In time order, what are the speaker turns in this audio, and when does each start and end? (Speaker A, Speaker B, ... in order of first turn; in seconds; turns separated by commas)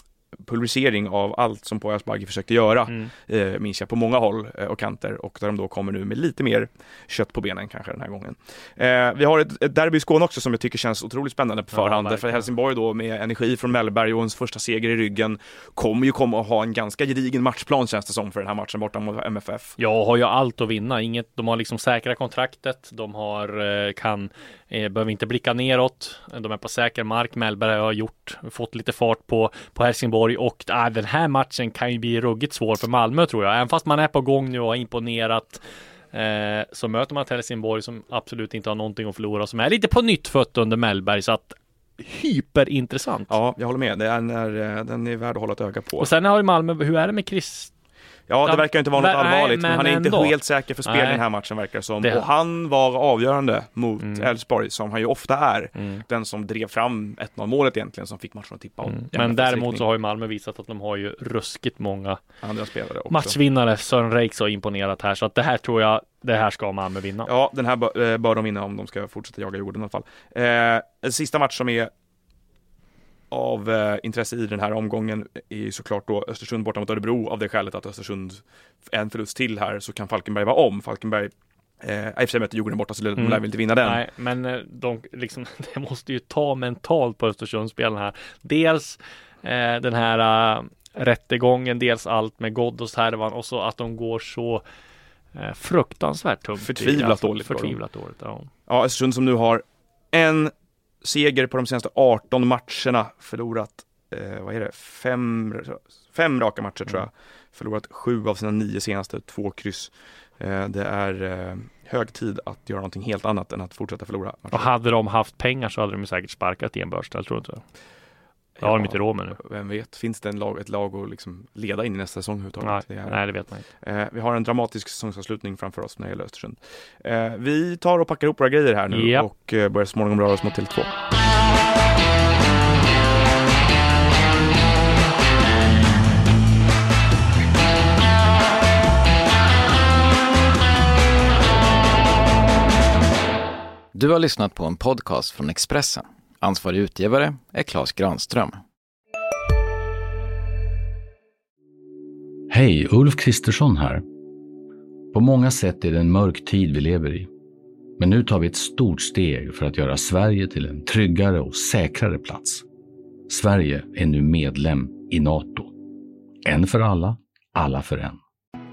Speaker A: 0.4-19.8, Speaker B: 11.7-12.4, Speaker B: 19.8-35.6, Speaker B: 36.1-43.3, Speaker A: 43.3-46.1, Speaker B: 46.0-47.7, Speaker A: 48.3-59.8, Speaker B: 48.4-51.2, Speaker B: 52.0-52.3, Speaker B: 54.0-54.3, Speaker B: 55.8-56.0, Speaker B: 58.8-62.2, Speaker A: 62.4-63.4, Speaker B: 63.1-67.3, Speaker A: 67.2-71.9, Speaker A: 73.3-84.0, Speaker B: 83.2-94.6, Speaker B: 95.3-98.5, Speaker A: 96.6-97.8, Speaker A: 98.7-100.5, Speaker A: 101.0-114.7, Speaker B: 114.5-117.6, Speaker A: 118.6-123.2, Speaker B: 118.6-119.4, Speaker B: 122.6-123.6, Speaker A: 123.8-130.9, Speaker B: 128.9-129.3, Speaker C: 143.9-148.6, Speaker D: 152.5-154.0, Speaker D: 155.1-157.3, Speaker D: 158.0-162.6, Speaker D: 163.3-165.7, Speaker D: 166.4-168.2